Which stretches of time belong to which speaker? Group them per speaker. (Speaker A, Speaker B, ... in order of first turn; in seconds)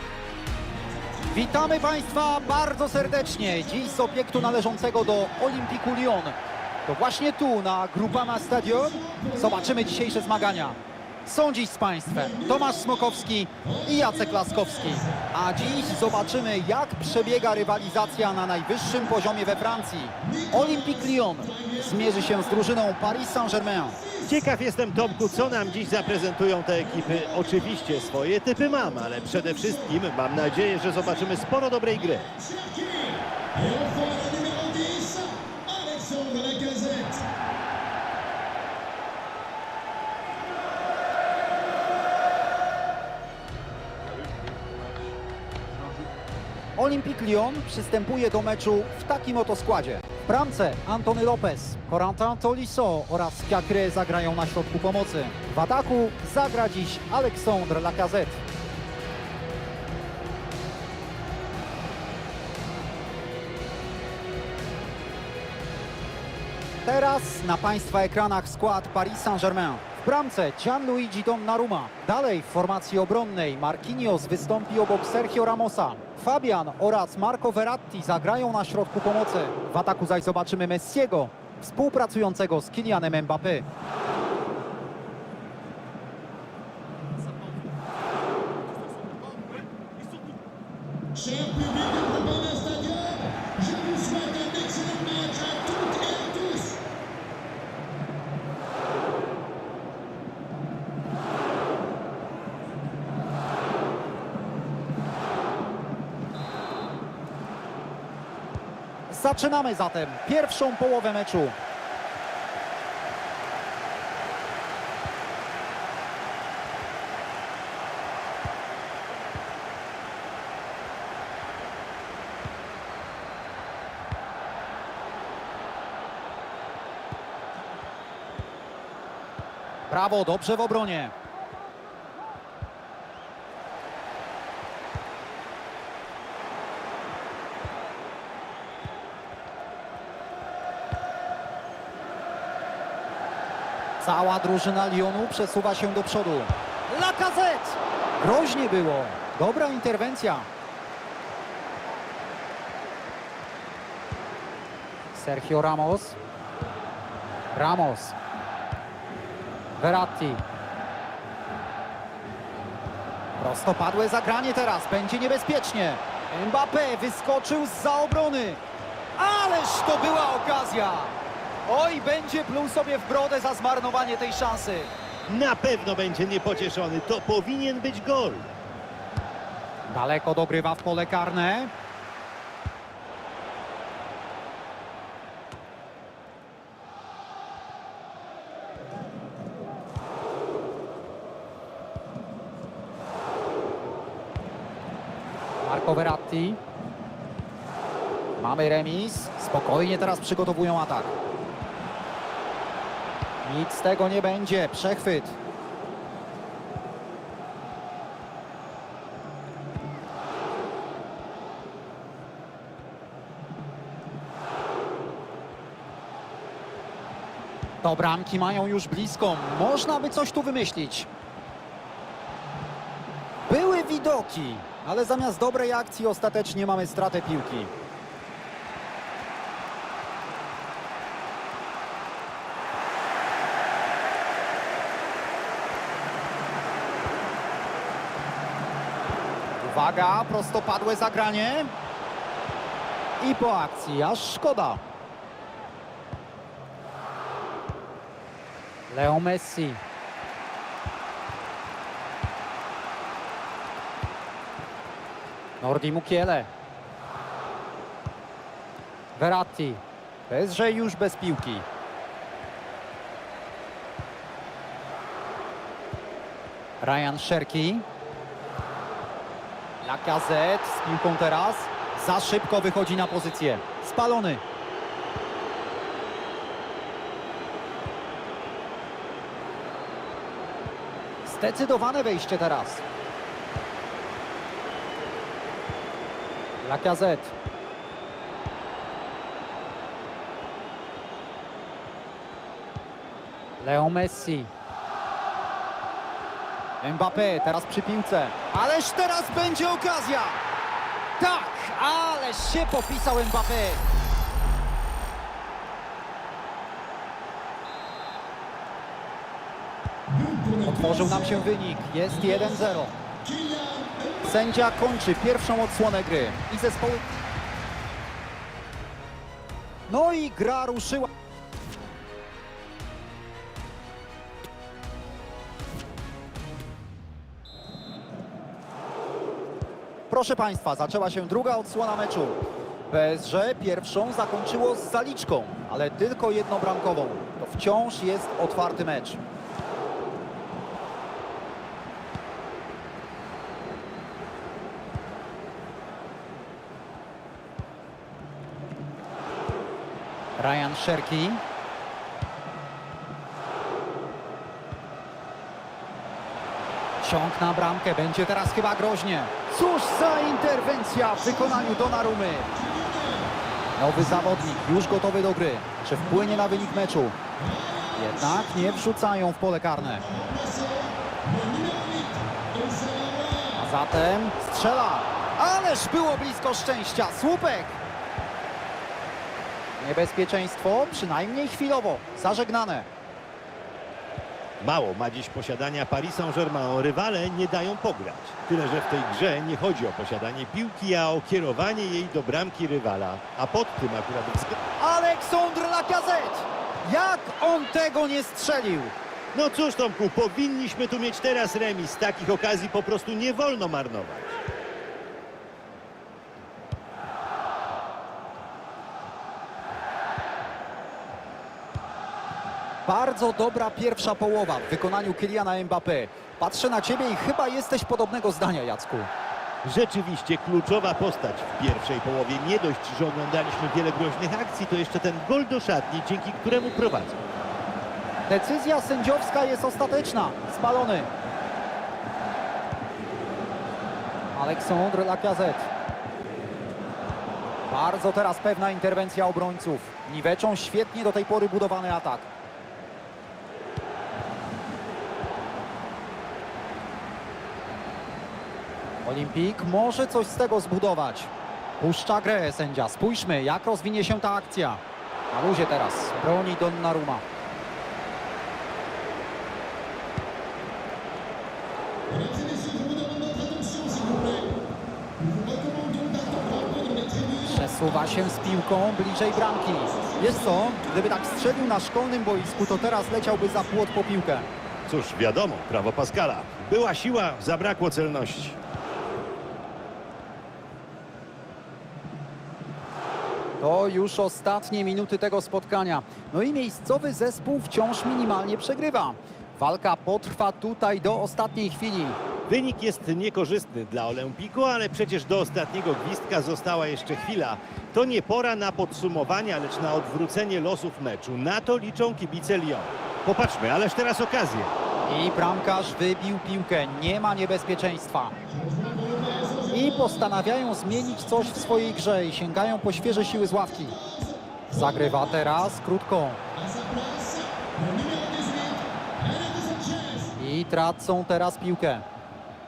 Speaker A: 1.0-5.4, 8.2-10.7, 12.1-18.1, 19.1-24.4, 25.0-26.2, 26.8-31.4, 32.1-37.2, 91.1-96.8, 310.1-311.5, 312.1-314.2, 361.2-363.3, 364.1-364.6, 366.0-368.9, 370.0-373.7, 462.1-464.6, 465.2-468.4, 469.9-471.1, 472.6-473.9, 508.5-512.0, 512.9-515.6, 516.5-520.4
Speaker B: 1.3-24.0, 46.8-58.4, 66.8-83.7, 109.1-111.5, 129.9-131.1, 144.0-150.5, 155.1-156.2, 157.5-158.2, 159.8-160.4, 163.4-168.6, 169.2-171.1, 171.7-174.9, 179.9-181.7, 195.6-196.6, 198.4-201.1, 203.4-205.3, 217.8-221.1, 223.5-227.7, 239.6-241.7, 243.2-244.8, 248.9-249.8, 255.6-256.5, 259.2-261.6, 266.8-267.9, 269.8-274.4, 281.2-282.8, 286.6-287.3, 293.6-294.5, 296.8-300.4, 301.2-303.8, 310.6-312.9, 314.2-317.1, 319.9-321.1, 330.1-332.4, 332.9-339.2, 350.4-351.4, 357.0-362.5, 363.8-367.2, 367.9-370.1, 373.6-377.8, 379.8-382.9, 394.8-398.9, 412.9-419.1, 428.3-431.1, 434.3-435.7, 437.7-442.3, 449.0-457.2, 467.4-474.5, 483.6-492.2, 505.1-508.3, 509.7-514.0, 514.7-516.4, 520.4-522.0
Speaker C: 24.2-32.3, 175.3-178.5, 384.6-394.6, 399.3-404.4, 419.6-427.2, 474.9-478.6, 492.5-504.7